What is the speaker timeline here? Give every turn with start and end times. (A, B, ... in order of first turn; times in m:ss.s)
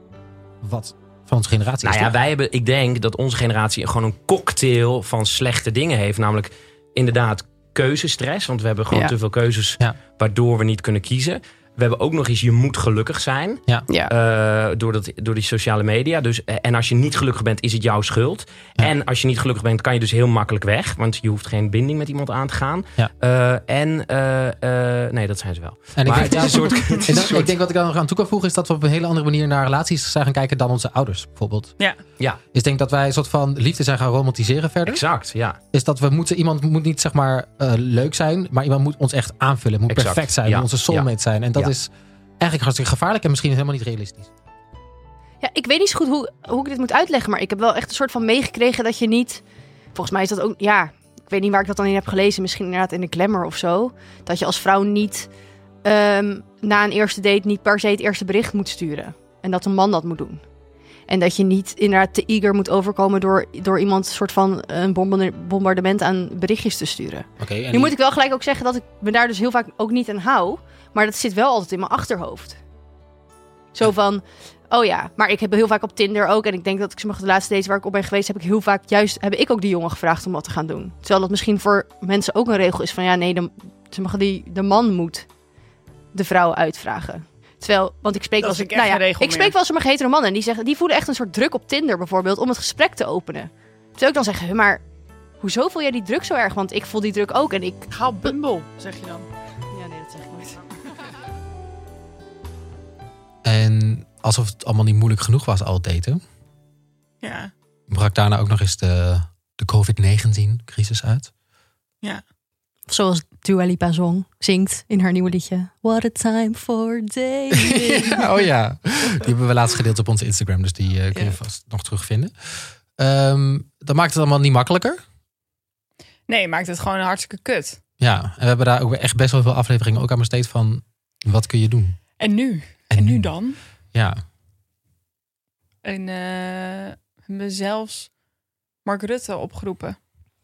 0:00.6-0:02.2 A
0:01.8-0:27.5 B
0:26.0-0:31.7 A
0:32.5-0:35.0 A
0:34.8-0:35.6 B
0:35.7-0:44.3 A
0:39.9-0:41.7 B
0:45.4-0:49.4 C
0:49.9-0:55.3 C
0:55.8-1:00.4 C
1:01.1-1:12.6 C
1:07.4-1:08.0 A
1:13.7-1:25.2 C
1:26.1-1:34.8 C
1:28.4-1:29.5 D
1:35.4-1:38.3 C
1:37.9-1:39.3 D
1:39.7-1:40.6 C
1:43.4-1:46.2 A
1:47.2-1:47.5 D
1:47.9-1:51.3 A
1:52.9-1:58.3 C
1:57.5-2:05.0 A
2:06.3-2:07.8 D
2:08.0-2:12.0 A
2:12.2-2:13.6 D
2:12.9-2:13.3 A
2:13.9-2:14.2 A
2:15.8-2:18.1 D
2:18.8-2:20.0 D